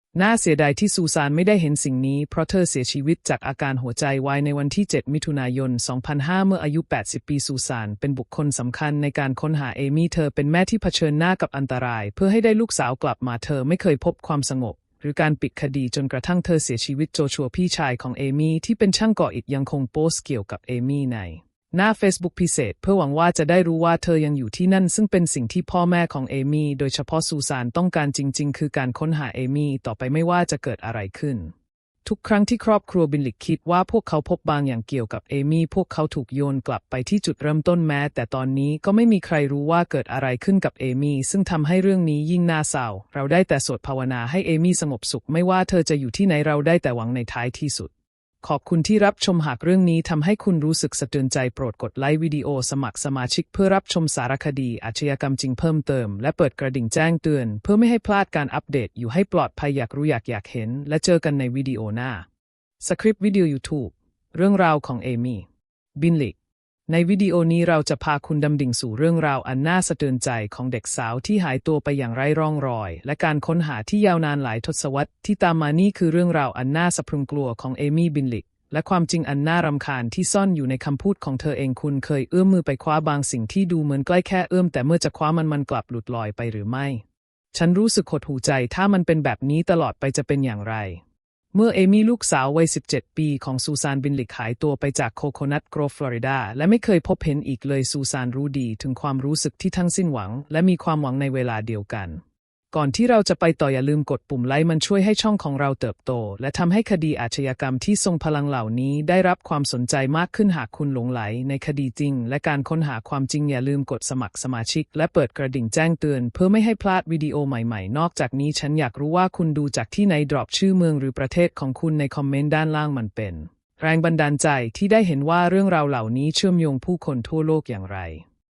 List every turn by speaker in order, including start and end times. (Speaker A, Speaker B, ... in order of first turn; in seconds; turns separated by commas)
Speaker A: 0.1-31.5, Speaker A: 32.0-47.9, Speaker A: 48.4-62.3, Speaker A: 62.8-65.5, Speaker A: 66.0-66.3, Speaker A: 66.9-91.0, Speaker A: 91.5-102.2, Speaker A: 102.7-128.2